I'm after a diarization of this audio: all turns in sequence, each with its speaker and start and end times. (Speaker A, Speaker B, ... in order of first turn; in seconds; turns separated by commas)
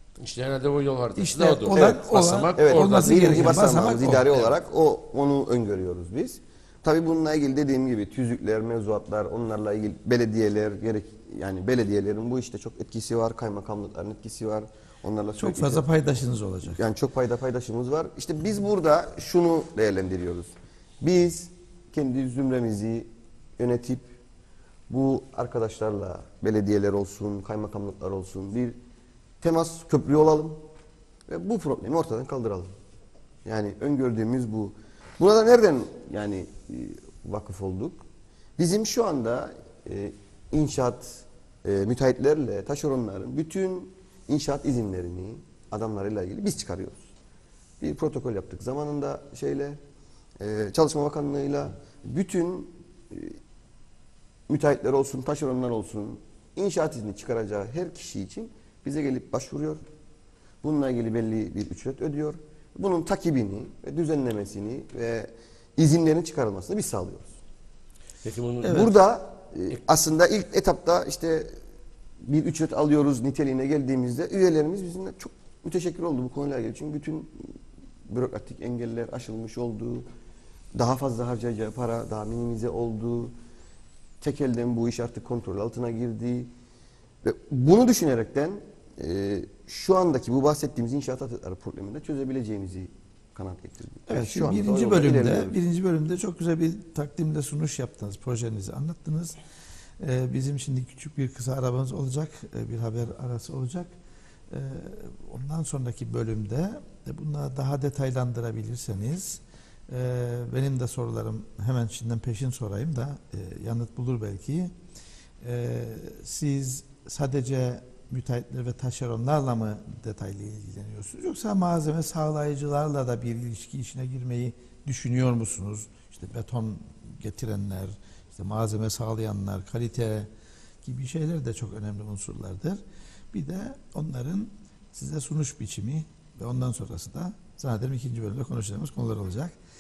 Speaker A: 0.2-4.5, Speaker B: 1.2-4.3, Speaker C: 2.6-15.8, Speaker B: 15.4-16.8, Speaker C: 16.7-24.1, Speaker C: 24.9-28.8, Speaker C: 29.4-30.6, Speaker C: 31.3-32.7, Speaker C: 33.5-38.0, Speaker C: 38.6-47.1, Speaker C: 47.8-49.8, Speaker C: 50.4-53.4, Speaker C: 54.5-59.8, Speaker C: 60.6-67.3, Speaker A: 68.2-68.9, Speaker C: 68.6-71.6, Speaker C: 72.2-77.5, Speaker C: 78.1-80.1, Speaker C: 80.8-83.3, Speaker C: 84.2-86.5, Speaker C: 87.2-95.6, Speaker B: 94.1-99.4, Speaker B: 100.0-103.9, Speaker B: 104.5-114.7, Speaker B: 115.4-130.3, Speaker B: 130.8-139.6